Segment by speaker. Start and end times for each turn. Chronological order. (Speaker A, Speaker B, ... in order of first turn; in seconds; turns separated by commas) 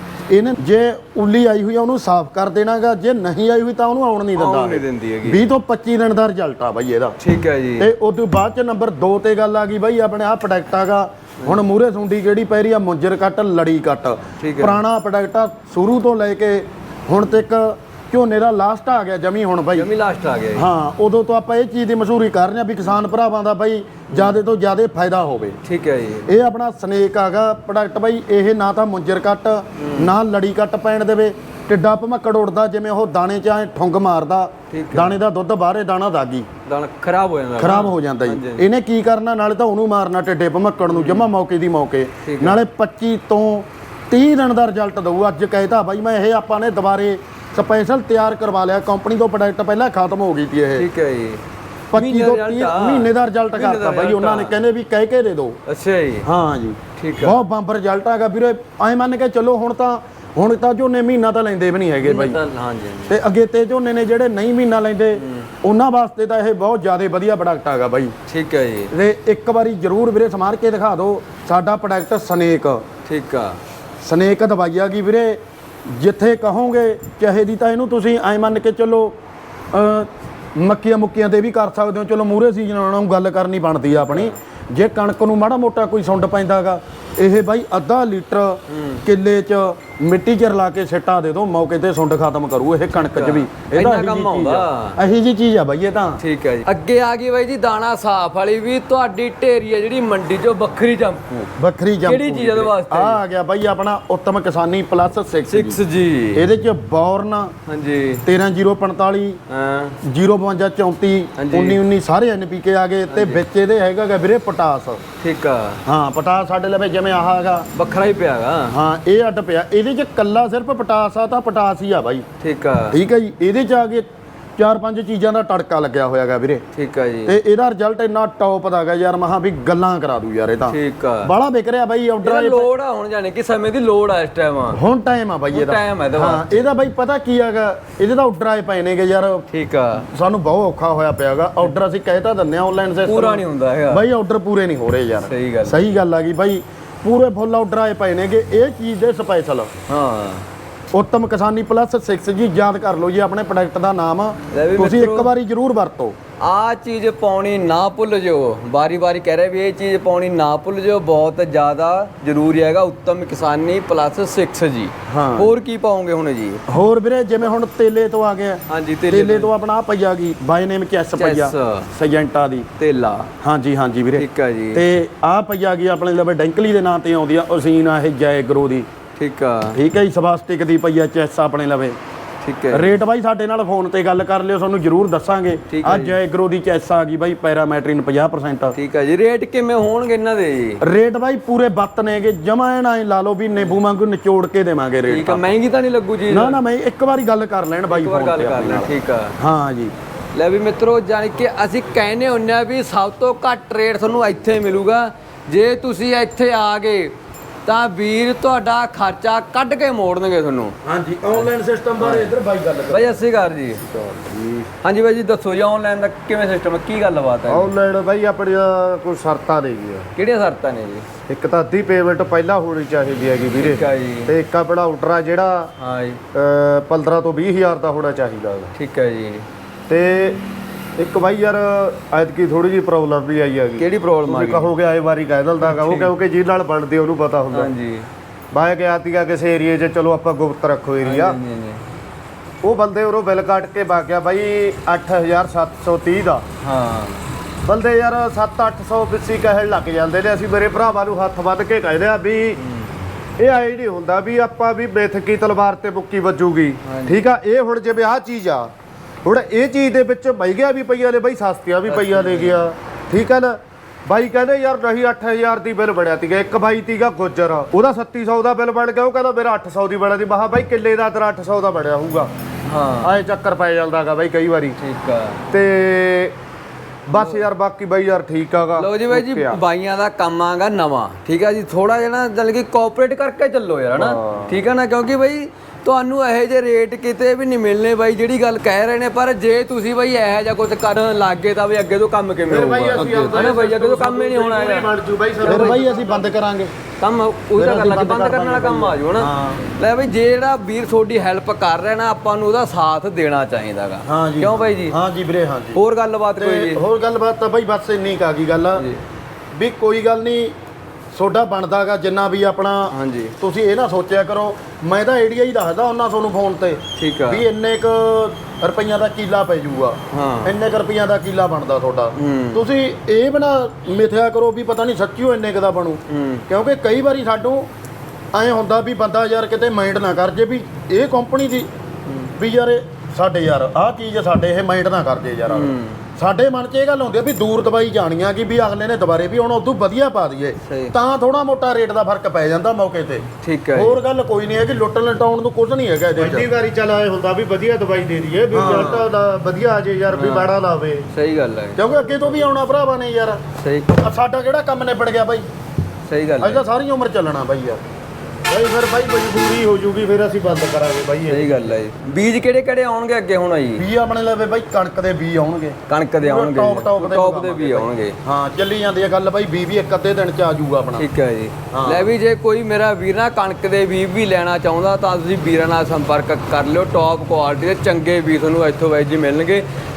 Speaker A: 0.3-7.2, Speaker B: 4.3-5.4, Speaker B: 7.2-7.9, Speaker A: 7.8-19.9, Speaker B: 14.4-14.8, Speaker B: 19.7-20.7, Speaker A: 20.6-25.6, Speaker B: 24.1-24.4, Speaker B: 25.6-26.3, Speaker A: 26.3-36.5, Speaker B: 29.8-30.1, Speaker B: 34.7-35.2, Speaker B: 36.7-38.7, Speaker A: 37.6-50.9, Speaker B: 40.9-41.3, Speaker B: 42.2-42.6, Speaker B: 50.8-54.6, Speaker A: 51.9-55.6, Speaker B: 55.7-56.3, Speaker A: 56.2-62.4, Speaker B: 57.0-57.4, Speaker B: 62.0-63.2, Speaker A: 63.1-68.1, Speaker B: 65.1-65.5, Speaker B: 68.3-68.9, Speaker A: 68.9-72.8, Speaker B: 73.0-73.6, Speaker A: 74.0-79.2, Speaker A: 79.7-96.2, Speaker B: 84.0-84.4, Speaker B: 88.7-89.1, Speaker B: 93.0-95.0, Speaker B: 96.2-101.5, Speaker A: 101.6-105.8, Speaker B: 102.0-103.2, Speaker B: 105.5-106.5, Speaker A: 106.3-107.5, Speaker B: 107.7-108.2, Speaker A: 108.2-109.4, Speaker B: 109.5-110.0, Speaker A: 110.0-115.0, Speaker B: 111.4-111.8, Speaker B: 113.1-113.4, Speaker B: 115.2-115.8, Speaker A: 115.9-117.7, Speaker B: 117.7-118.8, Speaker A: 118.7-122.2, Speaker B: 122.4-123.0, Speaker A: 122.9-126.6, Speaker B: 126.7-127.4, Speaker A: 127.2-132.7, Speaker B: 130.7-131.3, Speaker B: 132.2-134.8, Speaker A: 134.7-139.4, Speaker B: 135.5-136.7, Speaker B: 139.5-140.1, Speaker A: 140.1-149.7, Speaker B: 143.0-144.1, Speaker B: 145.2-145.9, Speaker B: 149.9-150.5, Speaker A: 150.9-156.2, Speaker B: 154.5-155.3, Speaker B: 156.4-166.6, Speaker A: 165.1-165.5, Speaker A: 166.7-172.7, Speaker B: 168.7-169.5, Speaker B: 171.2-171.9, Speaker B: 172.8-173.3, Speaker A: 173.4-178.9, Speaker B: 174.1-174.8, Speaker B: 179.2-179.8, Speaker A: 179.7-182.0, Speaker B: 182.4-183.0, Speaker A: 182.7-188.8, Speaker B: 185.7-186.2, Speaker B: 188.8-190.8, Speaker A: 190.8-195.6, Speaker B: 195.1-196.6, Speaker A: 196.3-199.9, Speaker B: 197.9-199.4, Speaker B: 200.3-210.8, Speaker A: 210.8-213.2, Speaker B: 212.0-212.3, Speaker B: 212.9-213.8, Speaker A: 213.9-214.7, Speaker B: 214.8-217.7, Speaker C: 217.5-220.1, Speaker B: 220.2-221.1, Speaker C: 221.2-225.7, Speaker B: 223.5-224.4, Speaker B: 225.8-226.2, Speaker C: 226.3-228.7, Speaker B: 228.8-229.5, Speaker C: 229.9-230.4, Speaker C: 231.0-237.7, Speaker B: 233.8-234.7, Speaker B: 235.6-236.1, Speaker B: 237.5-238.1, Speaker C: 238.5-241.4, Speaker B: 241.0-241.8, Speaker C: 242.6-246.4, Speaker B: 246.6-247.2, Speaker C: 247.6-252.6, Speaker B: 252.6-253.0, Speaker C: 253.4-258.7, Speaker B: 256.8-257.2, Speaker C: 259.2-272.3, Speaker B: 261.9-262.7, Speaker B: 272.6-273.2, Speaker C: 273.1-274.8, Speaker B: 274.8-275.4, Speaker C: 275.5-276.4, Speaker C: 277.1-279.5, Speaker B: 277.1-277.5, Speaker B: 278.7-294.9, Speaker C: 292.5-296.3, Speaker A: 292.9-293.5, Speaker A: 295.4-296.7, Speaker B: 295.4-295.8, Speaker B: 297.0-305.0, Speaker A: 297.6-299.6, Speaker A: 304.1-305.8, Speaker B: 305.8-306.8, Speaker A: 306.4-308.9, Speaker B: 308.7-309.0, Speaker A: 309.6-310.5, Speaker A: 311.1-327.7, Speaker B: 312.9-313.4, Speaker B: 316.9-317.4, Speaker B: 320.1-320.6, Speaker B: 322.2-322.6, Speaker B: 326.1-326.4, Speaker A: 328.3-331.7, Speaker B: 332.1-332.3, Speaker A: 332.4-346.5, Speaker B: 335.5-336.0, Speaker B: 340.6-340.9, Speaker B: 343.4-344.0, Speaker C: 346.2-351.1, Speaker A: 348.5-349.1, Speaker B: 350.1-350.5, Speaker B: 351.1-352.5, Speaker A: 351.8-353.4, Speaker B: 353.6-353.9, Speaker A: 353.9-355.4, Speaker B: 356.1-356.7, Speaker A: 356.4-357.8, Speaker C: 358.5-361.6, Speaker B: 361.3-363.9, Speaker A: 363.8-371.1, Speaker B: 365.9-368.2, Speaker B: 370.9-379.7, Speaker A: 371.7-372.1